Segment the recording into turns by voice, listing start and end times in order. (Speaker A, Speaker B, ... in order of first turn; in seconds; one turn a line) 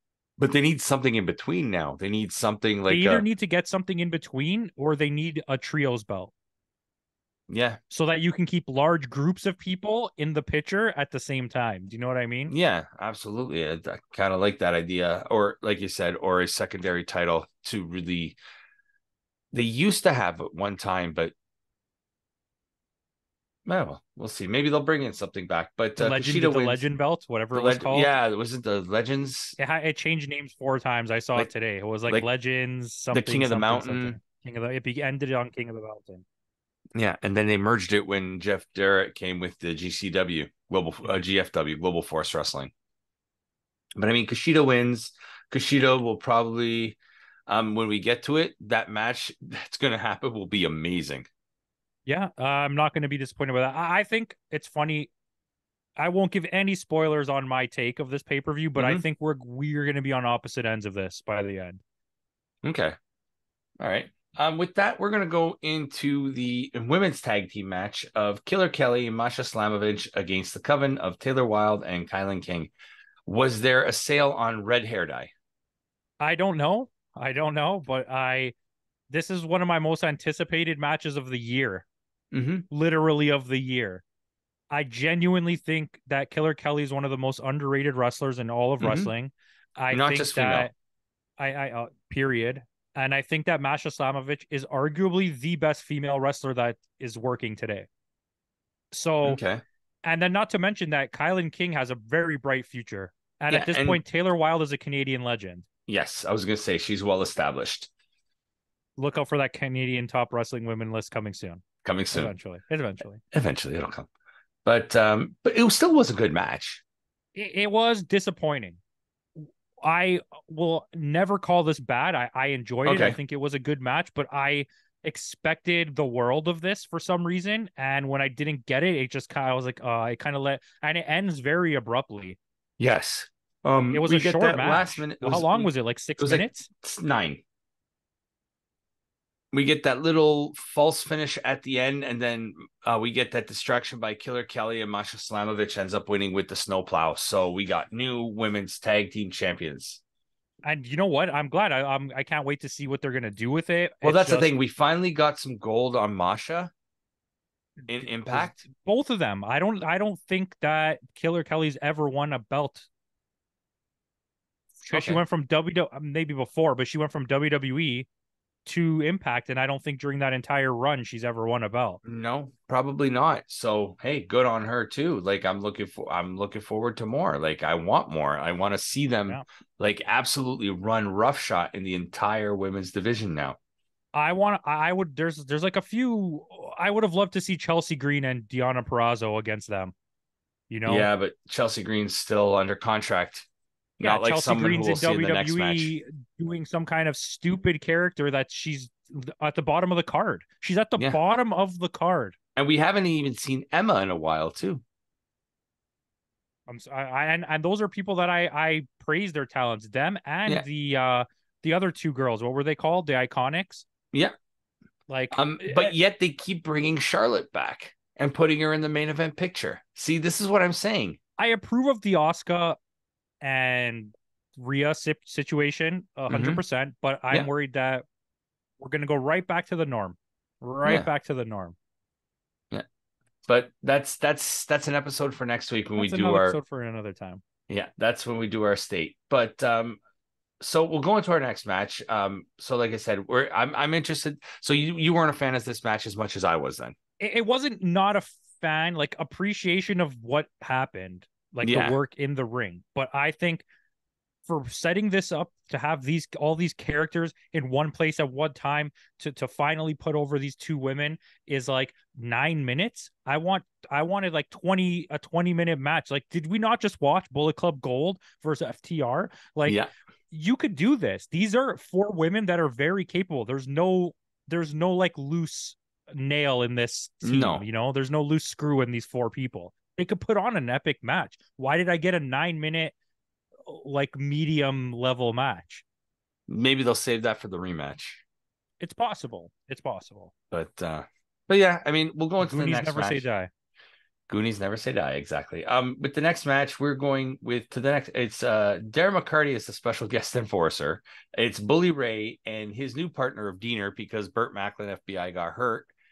Speaker A: 0.4-3.2
Speaker B: 2.9-6.3
Speaker A: 7.5-7.8
Speaker B: 7.9-12.5
Speaker A: 12.5-18.4
Speaker A: 19.5-21.3
Speaker A: 23.6-26.8
Speaker B: 25.9-28.1
Speaker A: 27.5-29.6
Speaker B: 29.6-36.2
Speaker A: 33.1-34.2
Speaker A: 36.9-42.7
Speaker A: 44.0-51.3
Speaker B: 52.0-55.1
Speaker B: 56.0-61.8
Speaker A: 58.8-59.0
Speaker A: 62.6-63.0
Speaker A: 63.8-72.7
Speaker A: 73.2-75.3
Speaker B: 76.2-78.5
Speaker B: 79.1-81.8
Speaker A: 82.3-82.7
Speaker B: 82.7-84.0
Speaker B: 84.7-90.7
Speaker A: 88.8-89.1
Speaker A: 89.9-90.7
Speaker B: 91.4-97.9
Speaker B: 98.9-99.4
Speaker A: 99.2-99.6
Speaker B: 100.0-105.6
Speaker A: 103.5-104.0
Speaker A: 105.9-107.9
Speaker B: 109.0-113.2
Speaker A: 111.8-112.3
Speaker A: 113.3-114.1
Speaker A: 114.6-116.8
Speaker B: 117.3-118.8
Speaker B: 119.4-132.4
Speaker A: 122.8-123.2
Speaker A: 132.8-137.4
Speaker B: 133.9-136.7
Speaker A: 139.5-150.0
Speaker B: 150.6-154.5
Speaker A: 154.0-156.7
Speaker B: 157.8-162.9
Speaker A: 157.9-158.7
Speaker B: 164.8-168.1
Speaker A: 164.9-165.2
Speaker B: 168.6-172.0
Speaker A: 172.0-183.6
Speaker B: 184.1-189.9
Speaker B: 190.7-191.1
Speaker A: 190.8-193.5
Speaker A: 194.0-195.9
Speaker B: 194.0-202.3
Speaker A: 202.6-204.8
Speaker B: 206.7-213.8
Speaker B: 215.1-215.9
Speaker A: 215.3-221.2
Speaker B: 221.4-222.8
Speaker B: 223.4-228.0
Speaker A: 226.3-226.6
Speaker B: 228.8-231.7
Speaker A: 233.5-236.6
Speaker B: 236.0-237.4
Speaker A: 237.7-240.0
Speaker A: 240.6-246.9
Speaker B: 247.2-253.6
Speaker A: 251.6-252.0
Speaker B: 254.5-269.8
Speaker B: 270.3-282.9
Speaker A: 277.2-277.6
Speaker B: 283.6-285.8
Speaker A: 286.5-288.2
Speaker B: 288.8-290.3
Speaker A: 290.5-293.2
Speaker B: 292.4-293.5
Speaker A: 294.3-305.9